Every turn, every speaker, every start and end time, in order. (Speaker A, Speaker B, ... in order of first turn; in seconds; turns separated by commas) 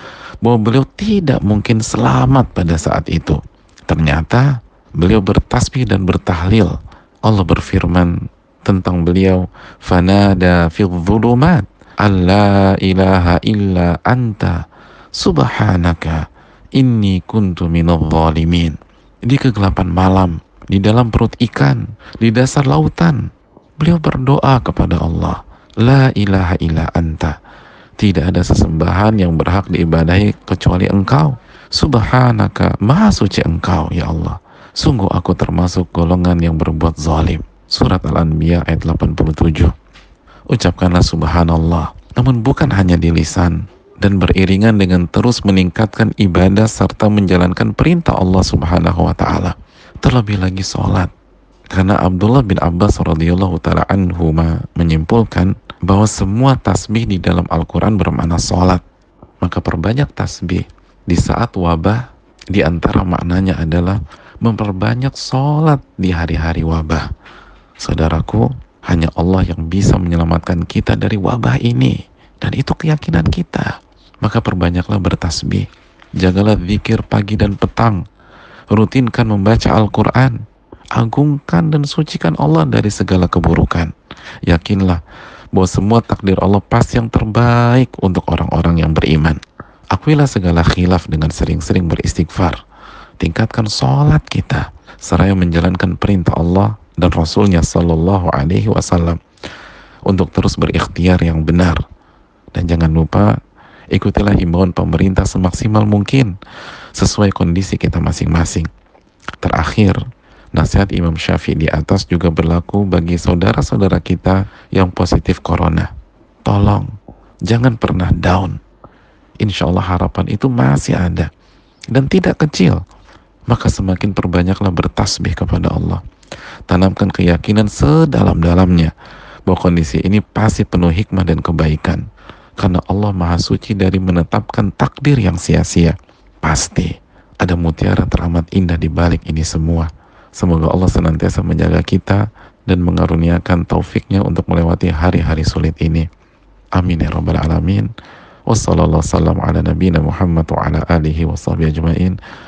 Speaker A: 0.4-8.1, Speaker A: 8.7-14.6, Speaker A: 15.2-18.8, Speaker A: 19.3-23.2, Speaker A: 23.8-27.4, Speaker A: 28.0-39.7, Speaker A: 40.5-51.1, Speaker A: 51.7-58.8, Speaker A: 59.4-67.1, Speaker A: 67.8-75.7, Speaker A: 76.2-78.0, Speaker A: 78.7-80.4, Speaker A: 81.0-83.9, Speaker A: 84.5-85.0, Speaker A: 85.5-89.4, Speaker A: 89.9-92.6, Speaker A: 93.2-99.2, Speaker A: 100.1-101.8, Speaker A: 102.5-103.3, Speaker A: 103.9-106.3, Speaker A: 107.0-108.7, Speaker A: 109.4-110.0, Speaker A: 110.5-115.9, Speaker A: 116.5-116.9, Speaker A: 117.5-118.6, Speaker A: 119.4-121.3, Speaker A: 121.9-122.8, Speaker A: 123.5-126.0, Speaker A: 126.7-128.9, Speaker A: 129.5-132.0, Speaker A: 132.6-146.1, Speaker A: 146.8-147.9, Speaker A: 148.5-152.2